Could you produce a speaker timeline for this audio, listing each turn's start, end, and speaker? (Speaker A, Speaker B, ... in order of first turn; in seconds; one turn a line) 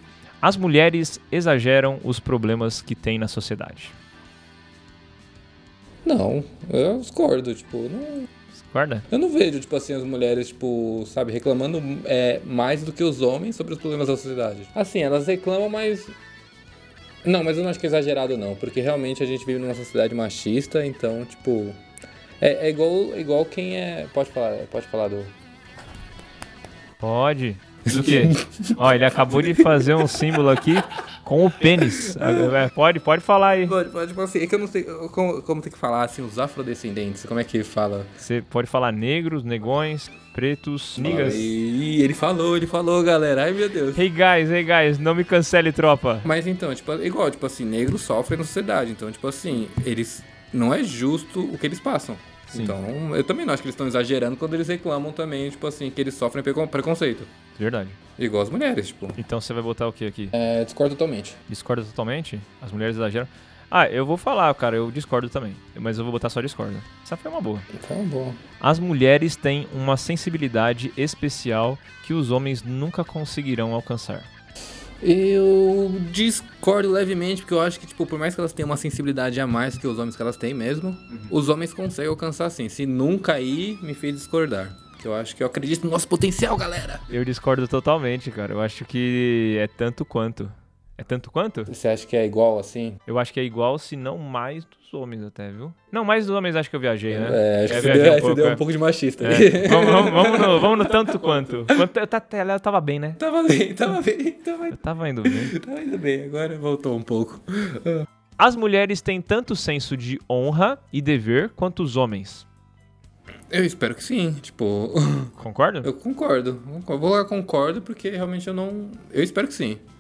Speaker A: 0.4-3.9
Speaker B: 6.0-8.3
Speaker A: 8.5-9.1
Speaker B: 9.1-16.1
Speaker B: 17.2-21.8
Speaker B: 22.4-25.3
Speaker A: 27.0-33.7
Speaker B: 27.9-30.4
Speaker B: 31.7-32.6
Speaker B: 33.6-38.1
Speaker A: 38.2-41.5
Speaker B: 41.0-44.0
Speaker A: 43.9-46.3
Speaker B: 46.2-57.3
Speaker A: 57.5-58.0
Speaker B: 58.2-59.2
Speaker A: 59.2-60.3
Speaker B: 60.3-61.4
Speaker A: 61.5-67.7
Speaker B: 67.7-68.4
Speaker A: 68.6-74.3
Speaker B: 75.0-87.0
Speaker A: 87.1-91.7
Speaker B: 91.7-93.0
Speaker A: 93.1-98.6
Speaker B: 97.1-101.2
Speaker A: 99.2-103.2
Speaker B: 103.2-108.0
Speaker A: 104.7-105.5
Speaker A: 108.4-112.5
Speaker B: 113.5-119.8
Speaker A: 115.4-115.9